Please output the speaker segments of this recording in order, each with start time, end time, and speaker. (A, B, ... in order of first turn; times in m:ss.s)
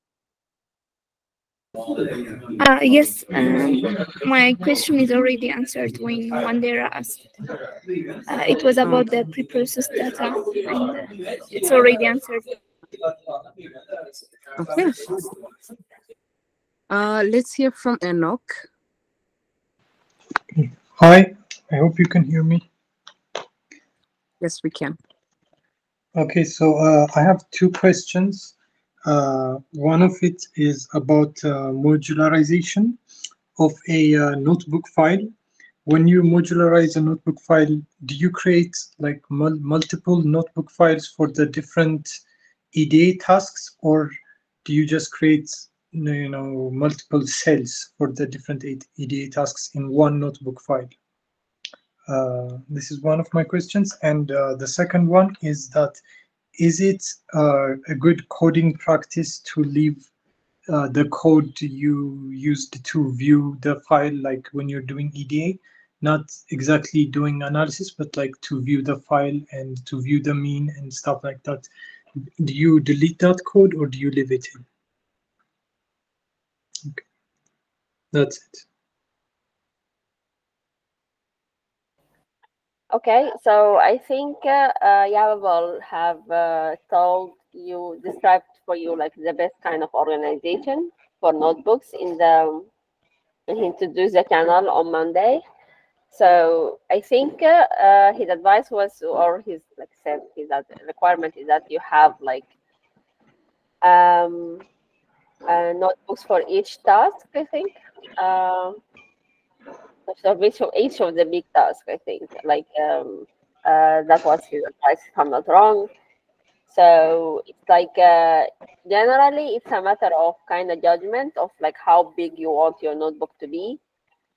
0:02.6-0:07.2 A
0:08.3-0:12.5 A
0:14.6-0:15.2 B
0:16.9-0:18.6 B
0:20.5-0:22.6 C
0:24.4-0:25.0 B
0:26.2-0:33.0 C
0:33.6-0:35.3 C
0:35.8-0:42.2 C
0:42.7-0:51.0 C
0:52.1-0:56.0 C
0:56.6-1:00.1 C
1:00.7-1:11.7 C
1:12.3-1:14.7 C
1:18.1-1:18.6 C
1:22.9-1:32.7 D
1:33.5-1:35.4 D
1:36.1-1:42.5 D
1:43.8-1:44.6 D
1:45.5-1:48.8 D
1:50.1-1:55.9 D
1:56.7-2:03.8 D